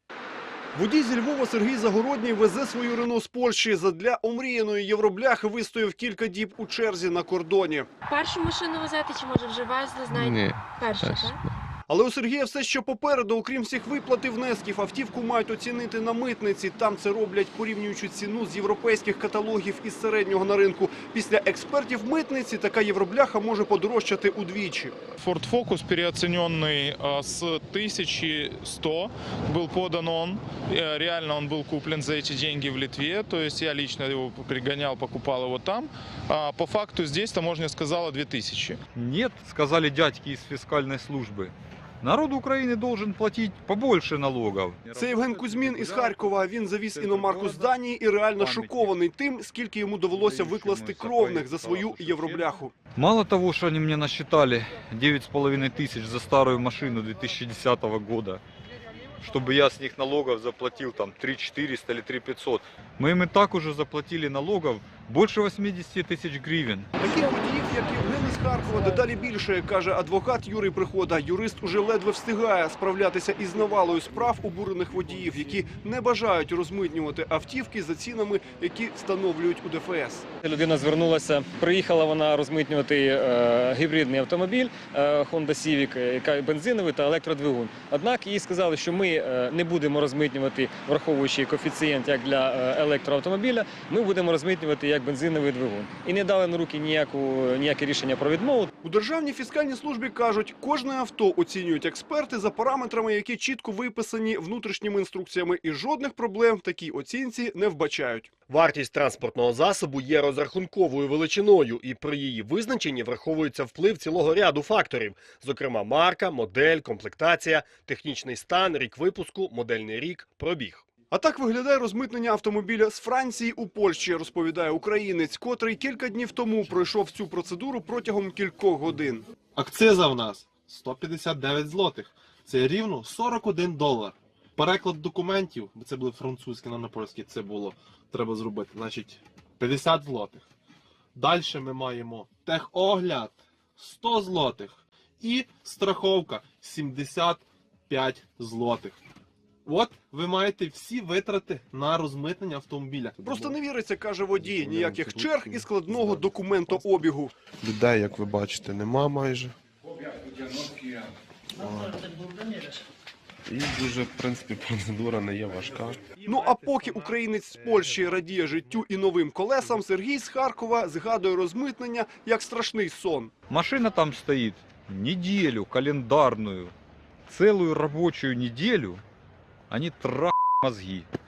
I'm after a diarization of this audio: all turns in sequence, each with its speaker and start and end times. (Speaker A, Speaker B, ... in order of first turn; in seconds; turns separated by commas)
Speaker A: 0.7-7.9, Speaker B: 8.1-11.4, Speaker A: 11.9-24.9, Speaker C: 25.2-38.8, Speaker D: 38.9-47.7, Speaker A: 44.9-52.7, Speaker D: 48.4-48.9, Speaker D: 50.1-58.4, Speaker D: 59.2-66.9, Speaker A: 67.0-80.2, Speaker E: 80.4-98.7, Speaker A: 98.8-108.4, Speaker F: 108.5-120.9, Speaker A: 121.1-129.2, Speaker G: 129.5-140.4, Speaker G: 141.1-149.0, Speaker G: 149.6-153.2, Speaker A: 153.2-157.3, Speaker H: 154.5-156.9, Speaker H: 157.6-159.5, Speaker H: 163.5-166.0, Speaker A: 166.2-173.3, Speaker G: 166.2-167.1, Speaker G: 167.7-168.6, Speaker D: 173.5-176.7, Speaker D: 177.3-179.0, Speaker D: 179.7-181.1